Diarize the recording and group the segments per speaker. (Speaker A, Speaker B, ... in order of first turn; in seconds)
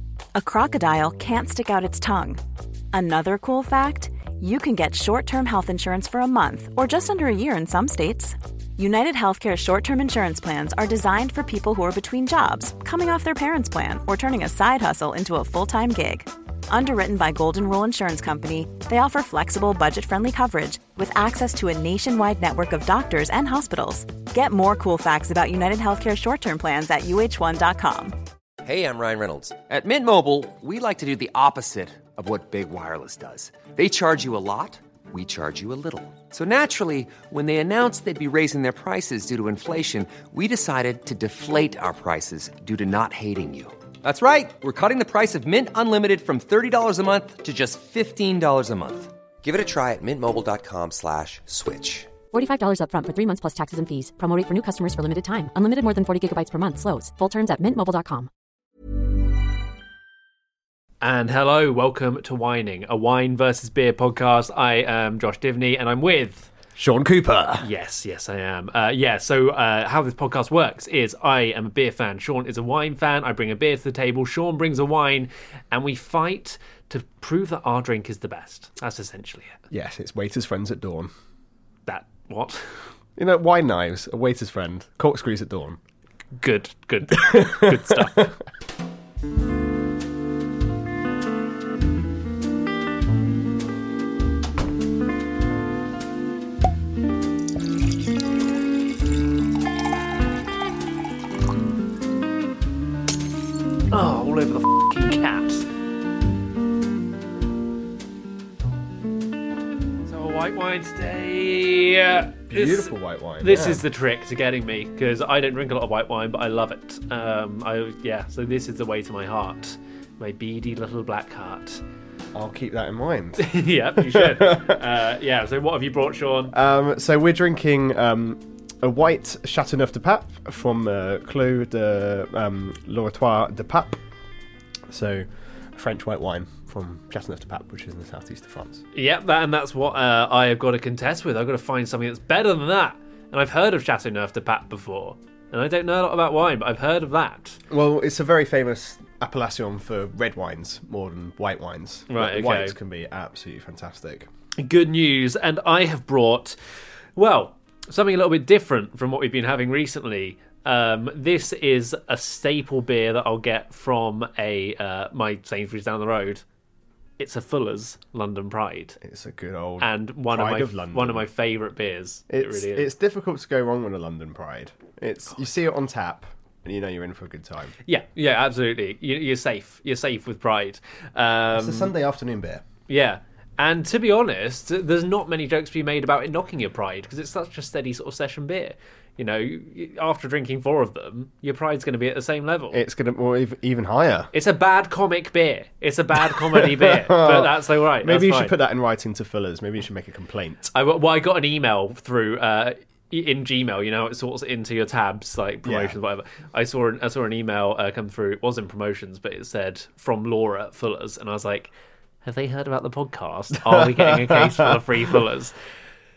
Speaker A: 0.3-2.4, 2.9-28.1
Speaker B: 28.6-52.1
Speaker C: 52.3-58.3
Speaker D: 61.0-66.5, 67.6-79.6, 81.8-82.7, 86.3-88.3, 103.9-105.7, 110.0-121.8, 123.4-126.5, 138.9-147.6, 152.1-152.8, 154.6-156.6, 157.1-166.4, 167.2-169.0, 169.8-172.9, 177.8-181.9, 182.9-192.8, 194.3-198.6, 200.7-215.5
Speaker E: 66.8-67.7, 79.7-81.1, 83.2-85.8, 87.2-88.2, 112.5-113.8, 122.3-124.8, 126.5-134.0, 134.9-138.8, 147.7-154.3, 169.0-171.2, 172.3-177.7, 181.5-182.6, 192.7-194.3, 196.4-200.7, 205.6-205.9, 213.6-214.8